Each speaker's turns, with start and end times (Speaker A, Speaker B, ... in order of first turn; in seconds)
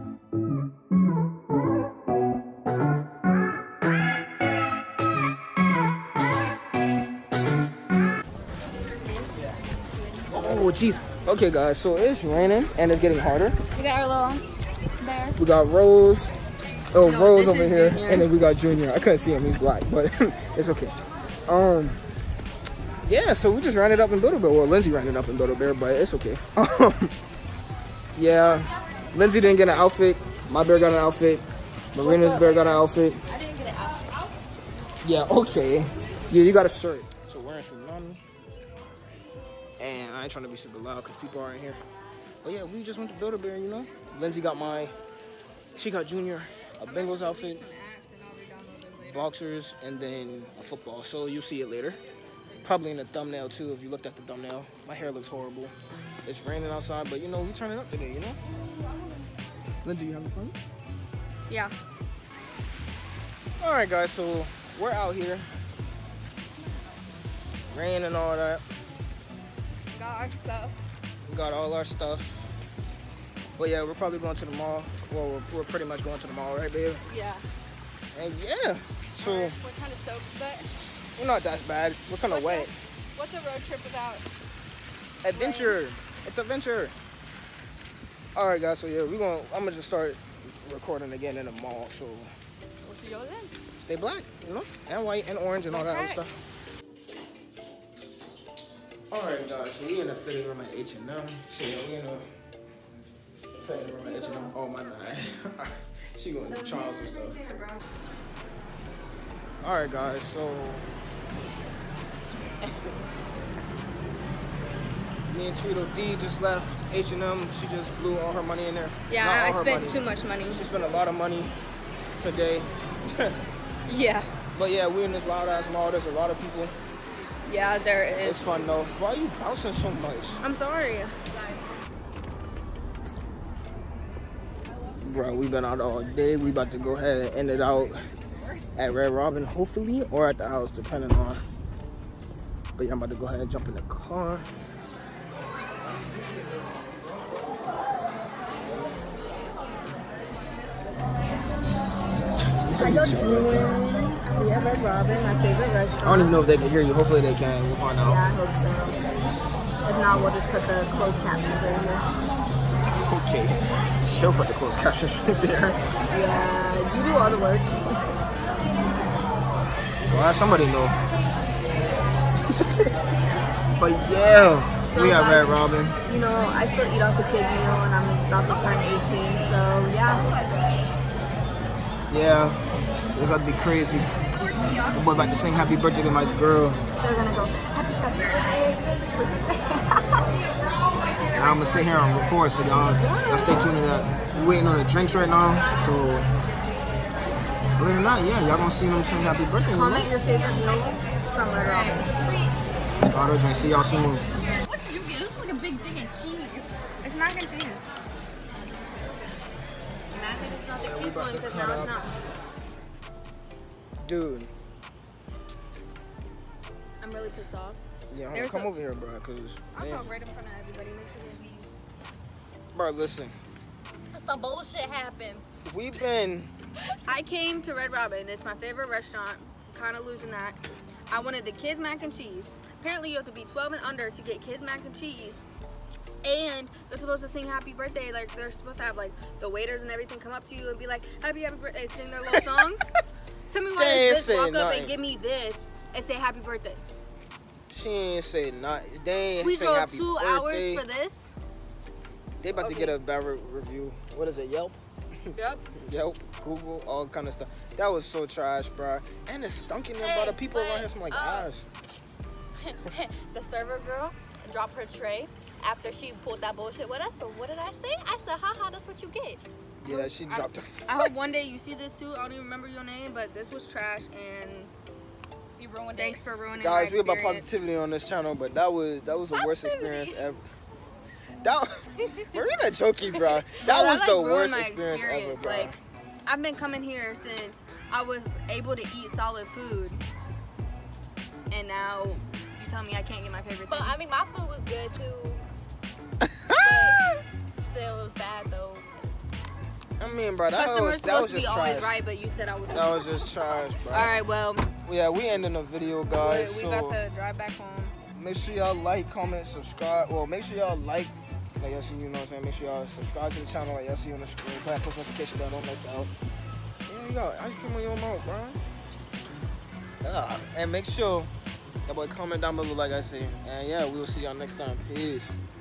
Speaker A: 10.3-13.6, 15.4-16.3, 16.9-20.9, 21.5-22.0, 23.1-27.1, 28.2-33.2, 35.0-38.2, 39.8-41.8, 42.4-44.9, 45.8-47.6, 49.1-52.0, 52.6-55.7, 56.2-58.4, 59.8-60.6, 63.6-65.5, 67.7-68.6, 71.2-72.5, 73.6-77.0, 78.2-79.6, 81.2-82.7, 85.2-86.9, 88.3-92.3, 93.8-96.4, 99.1-102.3, 103.5-107.4, 109.6-110.9, 112.6-112.9, 115.3-121.5, 122.2-123.4, 124.5-126.7, 128.2-130.4, 135.0-138.0, 138.8-141.4, 142.8-144.5, 152.7-153.7, 156.0-158.2, 163.1-165.8, 170.0-170.9, 172.5-172.9, 173.8-176.0, 182.1-182.6, 183.1-184.1, 184.9-186.8, 191.3-196.3, 197.8-200.1, 203.1-204.3, 210.8-212.0, 214.0-214.5, 218.1-220.1, 222.7-223.4, 225.7-226.5, 243.8-244.9, 247.7-250.8, 252.4-254.8, 255.3-261.6, 269.8-271.1, 276.6-280.4, 281.4-285.8, 296.2-297.2, 300.0-301.9, 302.7-304.2, 304.8-307.0, 308.1-316.1, 316.9-318.6, 320.0-321.3, 321.9-325.4
Speaker B: 13.8-14.4, 15.0-15.4, 17.0-18.3, 46.9-49.3, 69.9-70.8, 77.1-77.5, 79.2-80.7, 82.3-84.2, 85.3-85.8, 92.8-93.5, 95.7-96.2, 119.1-120.6, 123.9-124.3, 127.5-128.6, 130.4-131.2, 152.8-156.3, 158.0-159.0, 159.8-162.1, 166.1-167.8, 174.8-180.3, 187.0-190.3, 199.7-202.5, 204.7-206.4, 207.0-207.9, 210.1-212.1, 217.0-218.7, 219.8-221.7, 227.1-230.6, 231.1-235.4, 236.2-242.8, 243.5-246.8, 249.4-251.3, 252.5-253.0, 255.3-255.7, 269.9-274.7, 275.9-277.5, 283.5-285.7, 286.3-290.0, 291.5-294.0, 300.5-304.7, 306.1-308.0
Speaker C: 28.7-29.6, 32.0-34.4, 93.0-93.5, 180.3-180.7, 184.6-184.9, 193.0-193.7, 201.7-202.5, 204.7-206.7, 224.1-225.4, 260.0-261.5, 262.6-269.4, 275.6-276.2, 279.3-280.3, 293.7-295.4, 296.6-297.0, 297.6-299.2